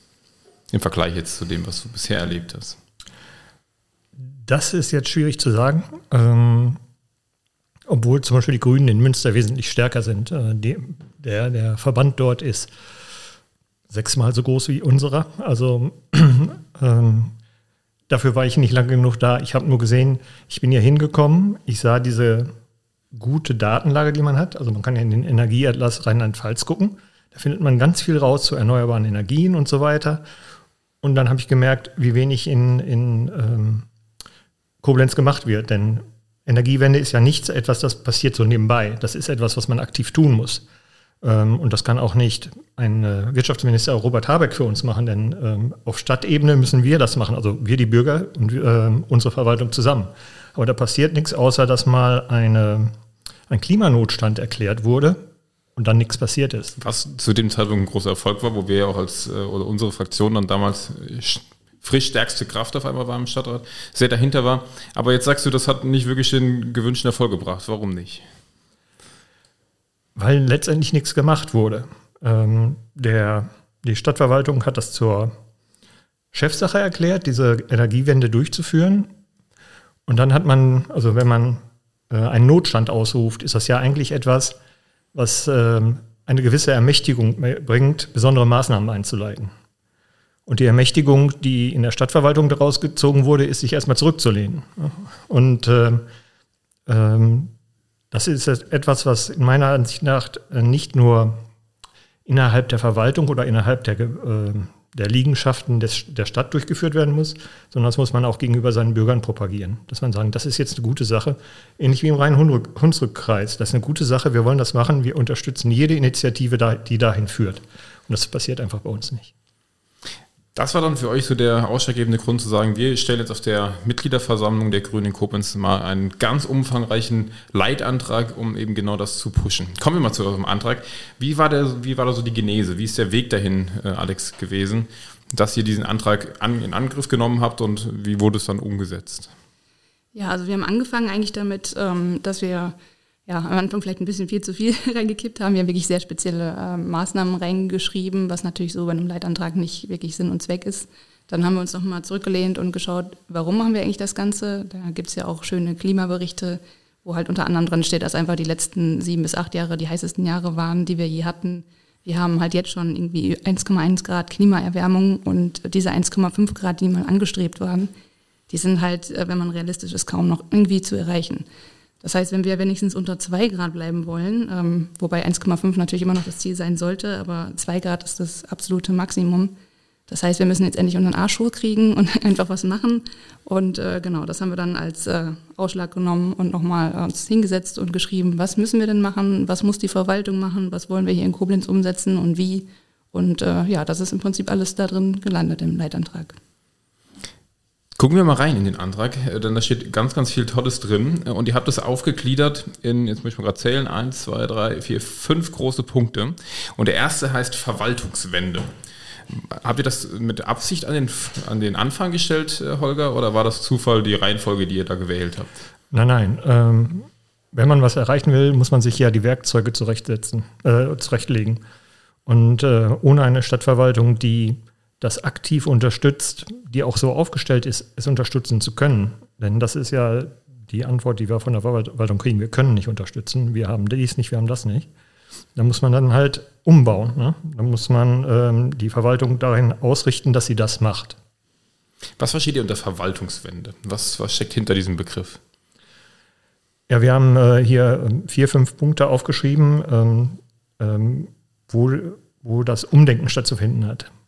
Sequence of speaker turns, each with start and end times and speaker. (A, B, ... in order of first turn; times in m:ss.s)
0:00.7-0:02.8 A
0:04.3-0:06.8 B
0:07.9-0:12.7 B
0:13.9-0:17.3 B
0:18.1-0:22.5 B
0:23.1-0:30.2 B
0:31.0-0:33.9 B
0:34.8-0:40.6 B
0:41.2-0:52.9 B
0:53.5-0:55.2 B
0:55.8-0:56.8 B
0:56.8-1:08.2 A
1:10.2-1:15.3 B
1:16.3-1:19.1 B
1:20.1-1:24.6 B
1:25.1-1:29.5 B
1:30.5-1:36.1 B
1:36.9-1:37.5 B
1:38.1-1:41.4 B
1:42.2-1:59.3 B
2:00.6-2:19.3 A
2:20.1-2:22.8 C
2:23.3-2:47.9 C
2:48.5-2:51.4 C
2:52.0-2:59.6 C
3:00.1-3:16.4 C
3:18.0-3:28.7 A
3:29.3-3:35.5 A
3:35.9-3:41.6 B
3:42.3-3:54.9 B
3:55.6-4:01.2 B
4:02.2-4:05.4 A
4:06.9-4:14.1 B